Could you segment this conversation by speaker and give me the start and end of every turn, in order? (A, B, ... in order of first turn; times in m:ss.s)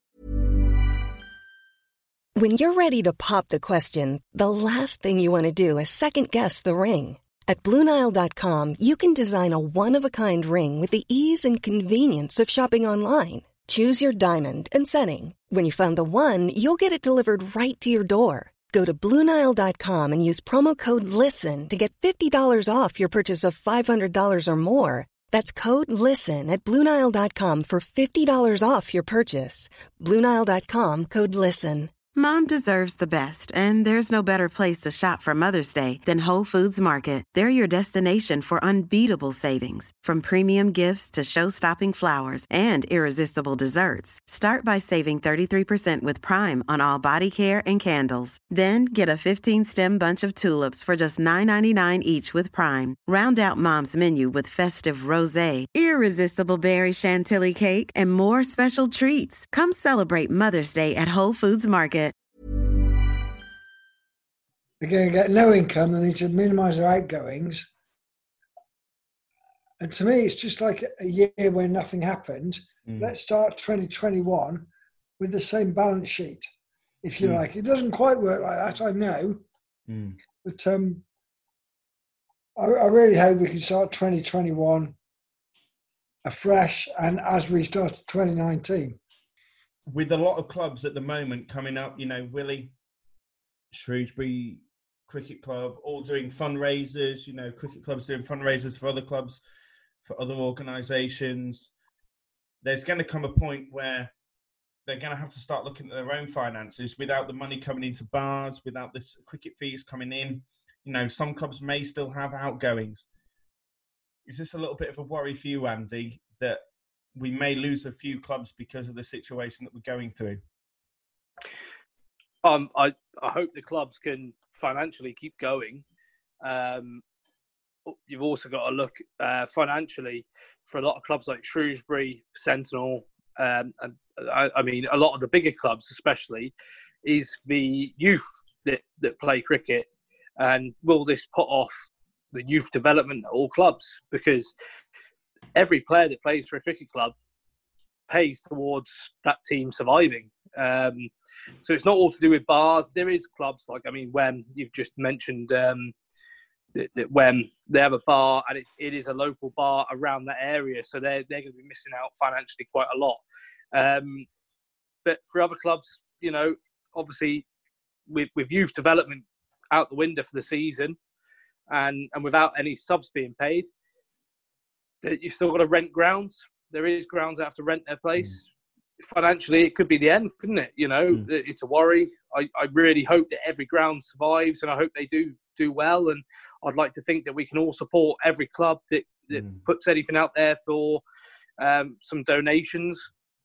0:02.4-0:31.9 A
0:32.1-1:02.2 B
1:04.8-1:07.7 C
1:09.8-1:14.7 C
1:12.8-1:13.1 D
1:15.2-1:16.5 C
1:17.0-1:19.4 C
1:19.9-1:20.2 D
1:20.4-1:21.0 C
1:22.6-1:25.0 C
1:26.2-1:29.0 C
1:29.9-1:32.7 D
1:33.7-1:39.4 D
1:40.0-1:41.7 D
1:42.6-1:44.1 D
1:44.9-1:53.0 D
1:54.3-1:56.6 D
1:57.2-2:00.4 D
2:02.4-2:05.8 E
2:06.4-2:07.0 E
2:07.9-2:16.5 E
2:17.0-2:19.9 E
2:20.4-2:24.5 E
2:25.6-2:27.2 E
2:28.1-2:31.1 E
2:31.6-2:35.9 E
2:36.8-2:43.2 E
2:43.7-2:44.3 E
2:45.0-2:47.4 E
2:48.1-2:51.0 E
2:51.7-2:53.7 E
2:55.0-2:58.4 E
2:59.0-3:11.0 E
3:09.3-3:09.6 D
3:11.6-3:13.1 E